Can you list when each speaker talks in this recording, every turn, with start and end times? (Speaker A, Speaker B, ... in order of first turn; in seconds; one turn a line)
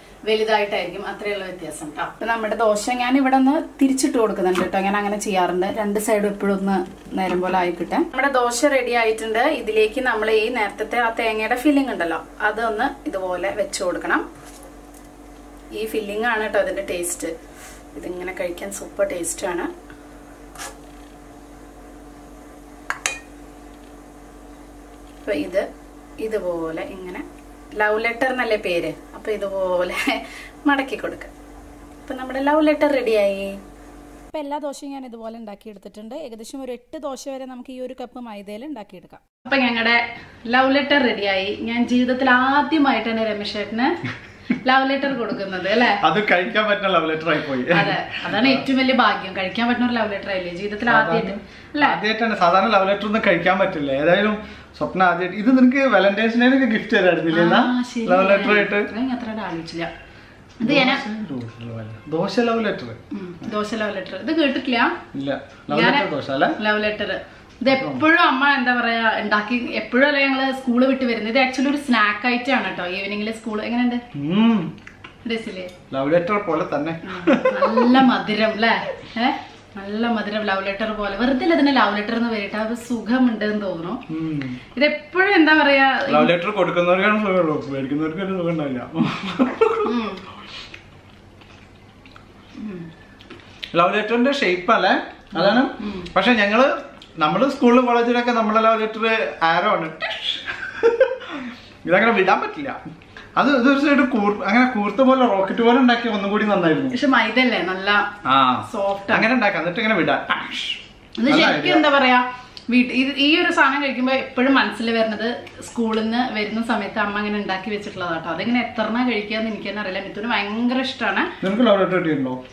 Speaker A: 0.3-14.2
Speaker A: 15.7-17.3
Speaker A: 17.9-19.7
Speaker A: 25.2-25.6
Speaker A: 26.2-31.3
Speaker A: 32.0-33.6
Speaker A: 34.3-44.0
Speaker A: 44.6-46.0
Speaker B: 46.0-48.6
Speaker A: 47.7-52.0
Speaker B: 50.9-58.9
Speaker A: 57.3-59.9
Speaker A: 60.6-61.0
Speaker B: 60.6-63.0
Speaker A: 63.1-65.0
Speaker B: 65.1-66.6
Speaker A: 65.7-74.0
Speaker B: 67.7-68.0
Speaker B: 74.1-74.7
Speaker A: 75.2-75.7
Speaker B: 75.9-78.1
Speaker A: 77.0-84.0
Speaker B: 84.1-84.6
Speaker A: 84.7-86.3
Speaker B: 86.1-89.9
Speaker A: 89.8-90.2
Speaker A: 92.6-92.9
Speaker B: 93.7-102.8
Speaker A: 95.3-96.1
Speaker B: 103.3-107.0
Speaker A: 106.9-108.1
Speaker B: 108.2-111.8
Speaker A: 108.6-109.3
Speaker A: 111.2-121.3
Speaker B: 121.4-122.4